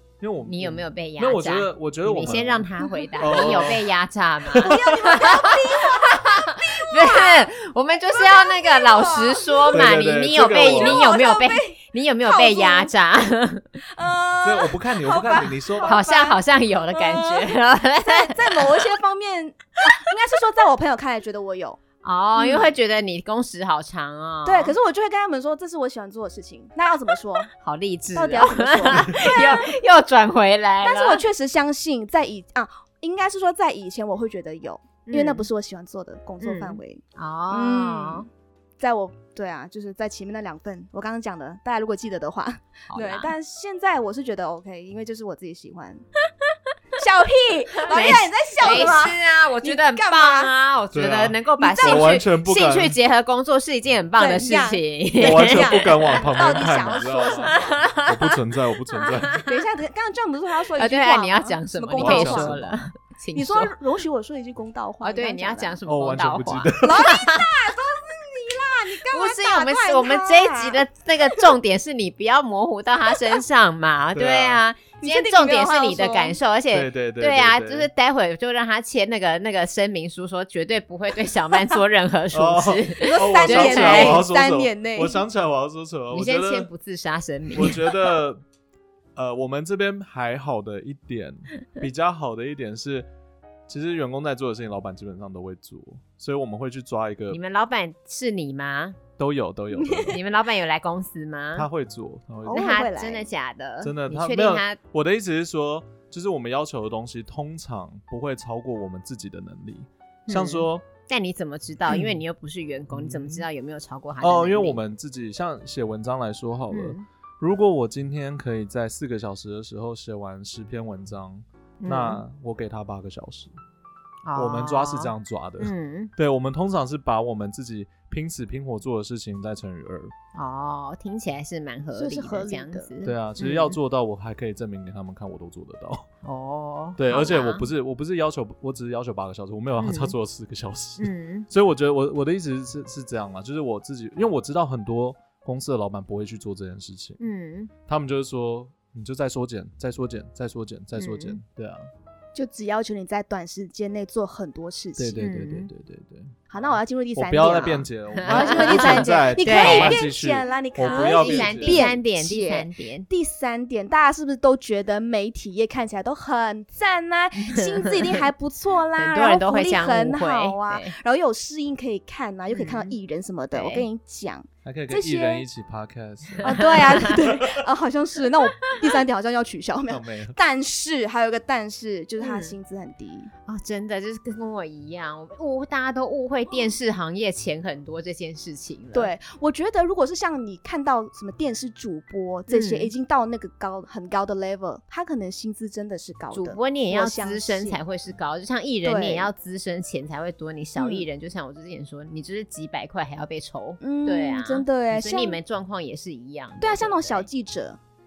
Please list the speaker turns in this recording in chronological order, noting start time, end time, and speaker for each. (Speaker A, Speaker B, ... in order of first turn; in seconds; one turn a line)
Speaker A: 0.2-3.9
Speaker B: 0.4-13.8
Speaker C: 2.8-3.7
Speaker A: 4.5-5.2
Speaker C: 4.6-7.5
Speaker C: 8.1-9.9
Speaker A: 9.7-11.1
Speaker C: 10.5-12.9
Speaker C: 13.9-16.4
Speaker A: 14.4-16.0
Speaker B: 15.8-18.7
Speaker C: 16.9-17.5
Speaker C: 18.0-21.8
Speaker B: 22.0-24.8
Speaker C: 22.3-22.7
Speaker C: 24.4-27.5
Speaker B: 27.5-31.2
Speaker C: 28.1-29.8
Speaker C: 30.8-38.3
Speaker B: 35.0-35.5
Speaker B: 36.4-38.2
Speaker C: 38.8-46.0
Speaker B: 42.9-43.3
Speaker C: 47.0-50.5
Speaker B: 47.8-56.3
Speaker A: 50.9-53.0
Speaker C: 51.6-52.2
Speaker C: 54.2-57.9
Speaker A: 55.2-59.4
Speaker B: 57.4-58.4
Speaker B: 58.9-59.5
Speaker C: 59.5-62.6
Speaker B: 60.8-63.7
Speaker A: 62.0-62.8
Speaker C: 63.3-65.8
Speaker B: 65.0-67.5
Speaker A: 65.8-67.2
Speaker C: 66.8-71.5
Speaker B: 69.1-84.2
Speaker A: 74.1-74.6
Speaker C: 75.0-76.4
Speaker A: 76.7-77.9
Speaker A: 82.3-86.7
Speaker C: 83.0-85.2
Speaker B: 86.1-87.8
Speaker A: 87.5-88.4
Speaker A: 89.2-93.1
Speaker A: 93.7-97.4
Speaker B: 97.3-99.0
Speaker A: 99.2-100.2
Speaker B: 100.1-101.7
Speaker A: 101.5-102.7
Speaker C: 102.5-103.3
Speaker B: 102.5-104.8
Speaker A: 103.8-110.8
Speaker B: 110.3-114.8
Speaker A: 111.9-112.2
Speaker A: 112.9-113.5
Speaker A: 114.2-123.5
Speaker B: 116.7-117.0
Speaker B: 121.8-122.2
Speaker B: 124.2-126.1
Speaker A: 124.3-130.1
Speaker B: 130.3-133.8
Speaker C: 131.9-132.9
Speaker A: 133.0-136.1
Speaker B: 136.2-137.7
Speaker A: 137.0-147.2
Speaker B: 139.8-140.2
Speaker B: 141.0-141.5
Speaker B: 147.2-147.7
Speaker A: 147.9-151.9
Speaker B: 150.9-151.4
Speaker C: 152.3-155.2
Speaker A: 155.0-161.9
Speaker B: 155.2-155.7
Speaker C: 156.5-175.4
Speaker B: 158.1-160.0
Speaker B: 160.8-163.1
Speaker B: 167.4-168.2
Speaker B: 168.9-171.0
Speaker B: 172.5-172.9
Speaker B: 173.5-173.8
Speaker A: 174.6-177.7
Speaker B: 176.4-177.2
Speaker C: 176.4-183.3
Speaker B: 178.6-178.9
Speaker A: 179.9-180.3
Speaker B: 182.2-182.5
Speaker B: 183.5-189.1
Speaker C: 188.9-197.8
Speaker B: 192.5-192.9
Speaker B: 196.3-207.3
Speaker C: 198.8-199.3
Speaker C: 200.8-201.1
Speaker C: 203.8-205.4
Speaker C: 206.6-207.8